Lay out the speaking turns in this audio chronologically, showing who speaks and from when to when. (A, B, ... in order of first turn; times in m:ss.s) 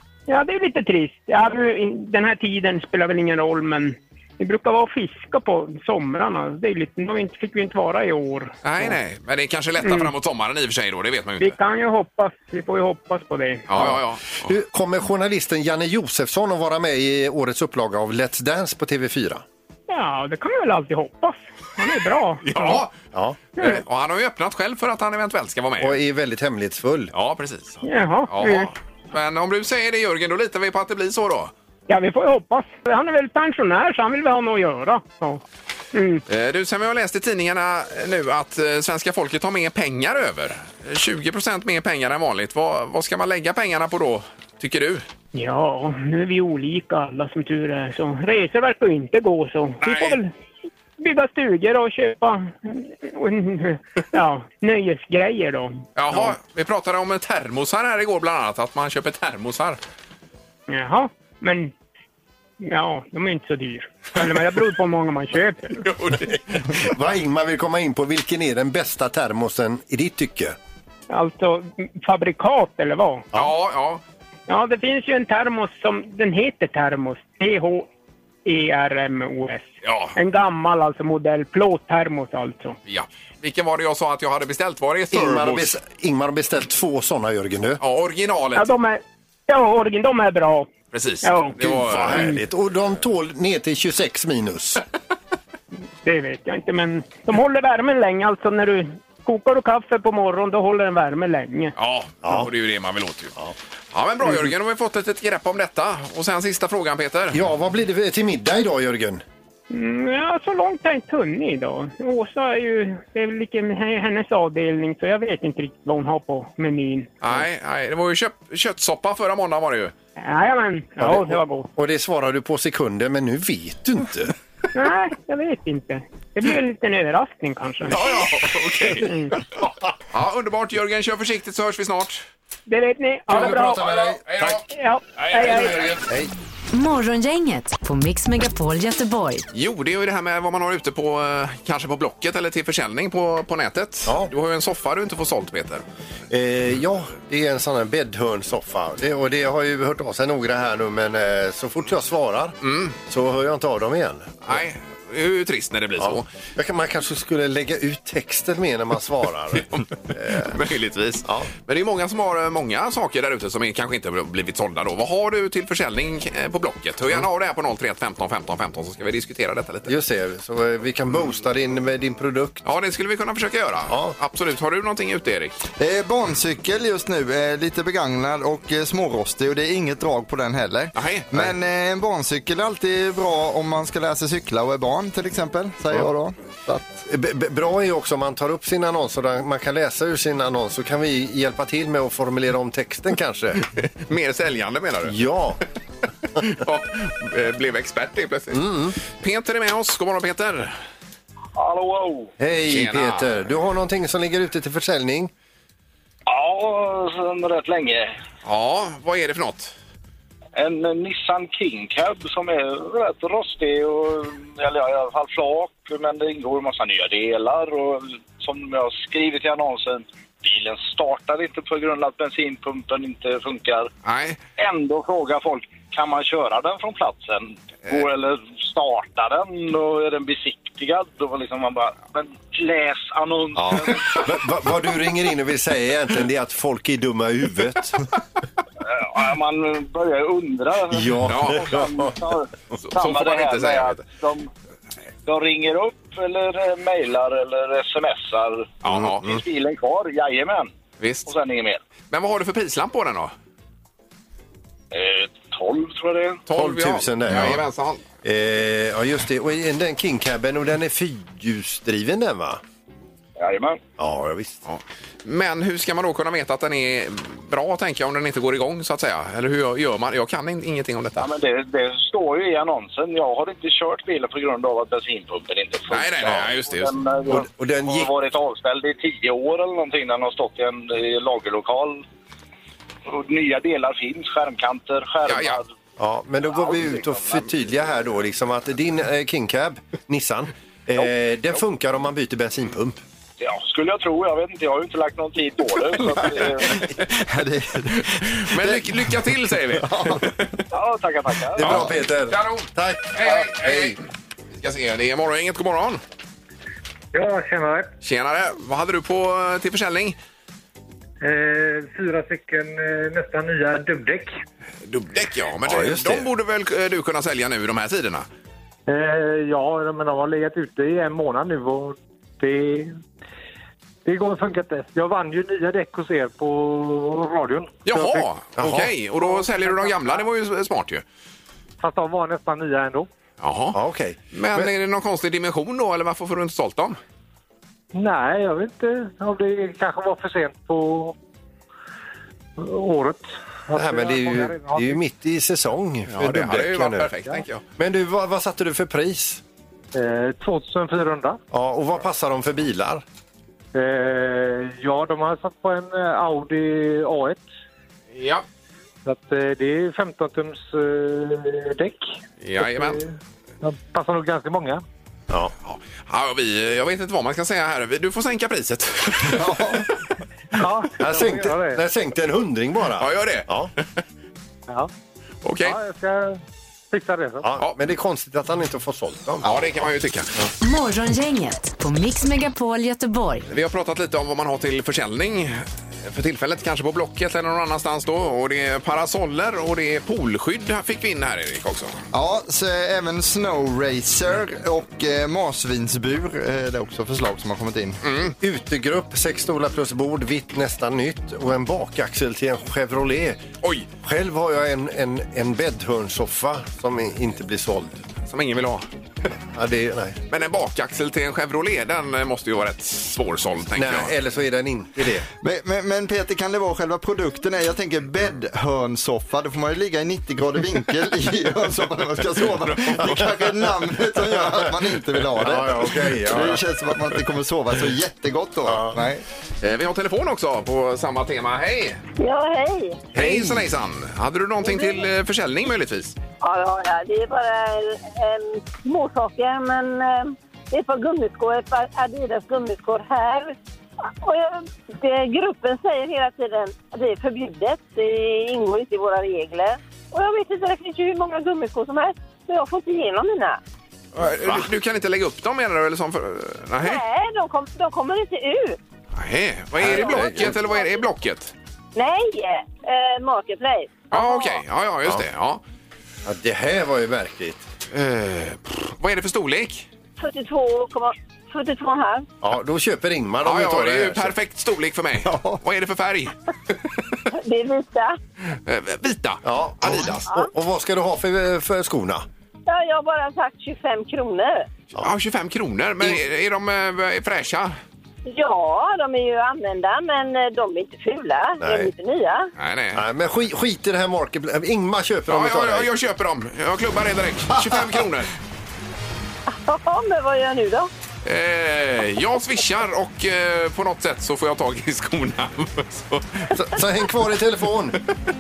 0:00.3-0:09.0 A
0:08.6-0:11.6 B
0:09.8-0:10.1 A
0:11.4-0:13.9 A
0:13.7-0:14.4 B
0:13.8-0:19.4 C
0:19.9-0:22.8 A
0:22.5-0:22.9 B
0:23.1-0:23.4 C
0:23.6-0:26.0 B
0:25.8-0:27.1 C
0:27.1-0:31.5 B
0:27.8-0:28.7 A
0:31.9-0:35.4 A
0:35.9-0:36.2 A
0:36.3-0:45.1 B
0:45.3-0:50.3 A
0:49.8-0:50.2 B
0:51.0-0:56.4 A
0:56.0-0:59.8 B
1:00.7-1:01.7 A
1:02.6-1:05.8 A
1:05.8-1:06.8 B
1:06.8-1:10.6 C
1:11.1-1:13.3 A
1:13.3-1:14.0 B
1:14.5-1:17.9 A
1:18.4-1:22.8 A
1:19.8-1:20.2 B
1:22.9-1:25.8 B
1:25.1-1:27.8 C
1:27.8-1:28.8 B
1:28.6-1:30.7 A
1:30.9-1:32.4 B
1:31.2-1:31.6 A
1:31.6-1:34.8 C
1:36.0-1:41.7 A
1:41.8-1:43.3 B
1:42.2-1:42.5 C
1:43.9-1:47.4 B
1:44.2-1:44.5 C
1:47.3-1:49.2 C
1:49.7-1:57.1 A
1:57.2-1:59.9 B
2:00.2-2:01.7 A
2:01.0-2:04.3 C
2:04.7-2:08.2 A
2:07.9-2:09.2 B
2:09.0-2:09.4 A
2:10.1-2:12.2 B
2:12.7-2:13.9 A
2:13.3-2:14.6 C
2:13.3-2:14.6 B
2:14.7-2:15.8 A
2:15.2-2:16.0 B
2:15.4-2:16.3 C
2:16.7-2:19.5 D
2:19.5-2:25.8 B
2:24.1-2:24.3 C
2:26.3-2:34.6 C
2:32.6-2:33.0 B
2:34.5-2:36.3 B
2:36.0-2:40.6 C
2:40.4-2:50.0 B
2:49.9-2:52.6 C
2:52.6-2:55.6 B
2:53.9-2:54.2 C
2:55.8-3:07.0 E
3:01.0-3:01.5 B
3:07.0-3:13.6 C
3:13.6-3:15.2 B
3:15.0-3:15.6 C
3:16.4-3:20.8 B
3:18.5-3:19.0 C
3:21.6-3:22.3 F
3:22.4-3:25.3 C
3:22.7-3:23.3 B
3:26.3-3:28.2 F
3:28.4-3:29.7 B
3:30.6-3:43.9 F
3:44.0-3:44.4 B
3:44.6-3:54.1 F
3:53.6-3:58.0 C
3:58.9-4:04.5 F
4:00.9-4:02.1 C
4:01.3-4:01.7 B
4:02.8-4:04.1 B
4:05.2-4:10.7 F
4:08.8-4:09.3 B
4:08.9-4:09.4 C
4:11.0-4:11.3 B
4:11.3-4:11.8 F
4:12.1-4:13.3 B
4:14.9-4:16.4 F
4:16.5-4:18.0 B
4:16.5-4:17.7 C
4:18.2-4:22.6 C
4:23.4-4:23.8 F
4:24.0-4:24.6 C
4:24.7-4:31.3 B
4:31.2-4:42.0 F
4:35.9-4:37.0 B
4:37.3-4:38.1 C
4:43.1-4:45.7 F
4:45.3-4:45.6 B
4:46.0-4:53.0 C
4:46.5-4:47.4 F
4:53.4-4:56.8 F
4:57.1-4:59.0 E
4:58.0-5:00.6 B
4:59.7-5:00.3 E
5:00.7-5:01.9 F
5:01.6-5:04.0 C
5:01.6-5:04.0 B
5:04.6-5:06.0 B
5:07.1-5:07.9 G
5:08.0-5:10.2 B
5:11.2-5:14.4 G
5:14.8-5:18.3 B
5:15.6-5:16.3 C
5:18.9-5:23.0 G
5:24.0-5:30.2 G
5:27.9-5:31.0 B
5:28.6-5:28.9 C
5:31.8-5:33.1 G
5:33.4-5:33.8 B
5:33.7-5:34.7 C
5:34.3-5:37.0 B
5:37.9-5:41.2 G
5:42.6-5:45.0 G
5:43.7-5:47.2 C
5:46.1-5:47.6 B
5:47.8-5:49.4 C
5:49.9-5:51.4 G
5:51.5-5:53.0 C
5:53.7-5:57.4 G
5:58.2-5:58.4 B
5:59.1-6:04.8 G
6:02.4-6:03.0 B
6:05.6-6:09.8 B
6:09.3-6:09.9 E
6:10.6-6:11.8 G
6:11.0-6:13.7 C
6:13.0-6:14.0 B
6:15.4-6:15.8 B
6:15.6-6:16.4 G
6:16.9-6:17.5 G
6:17.4-6:19.5 C
6:19.4-6:20.3 B
6:20.6-6:23.5 D
6:23.5-6:31.9 B
6:32.1-6:38.0 E
6:38.0-6:38.4 B
6:38.4-6:43.4 C
6:43.6-6:43.9 B
6:44.0-6:48.1 C
6:48.2-6:48.9 B
6:49.5-6:50.2 C
6:50.3-6:54.1 B
6:53.8-6:55.3 C
6:55.4-7:09.2 E
7:02.6-7:03.5 B
7:03.0-7:03.4 C
7:04.2-7:04.8 C
7:05.4-7:06.6 C
7:08.7-7:09.0 C
7:09.6-7:12.0 B
7:12.2-7:13.0 H
7:13.1-7:13.7 C
7:13.1-7:16.2 B
7:14.6-7:15.1 H
7:16.4-7:33.6 H
7:34.1-7:37.0 B
7:36.8-7:38.8 H
7:39.2-7:41.5 B
7:39.8-7:40.6 C
7:39.8-7:41.0 H
7:42.0-7:44.6 H
7:44.1-7:45.6 B
7:46.2-7:47.6 C
7:47.9-7:49.9 B
7:50.2-7:52.3 H
7:52.4-7:54.4 C
7:53.4-7:57.0 B
7:55.2-7:55.6 E
7:57.3-7:58.2 H
7:58.4-8:00.3 B
7:59.4-8:02.2 C
8:02.7-8:04.7 H
8:05.0-8:07.8 B
8:08.3-8:12.5 H
8:11.6-8:11.9 C
8:12.6-8:13.0 B
8:12.9-8:15.9 C
8:15.3-8:18.3 B
8:19.5-8:20.9 H
8:21.2-8:26.6 B
8:26.5-8:28.0 C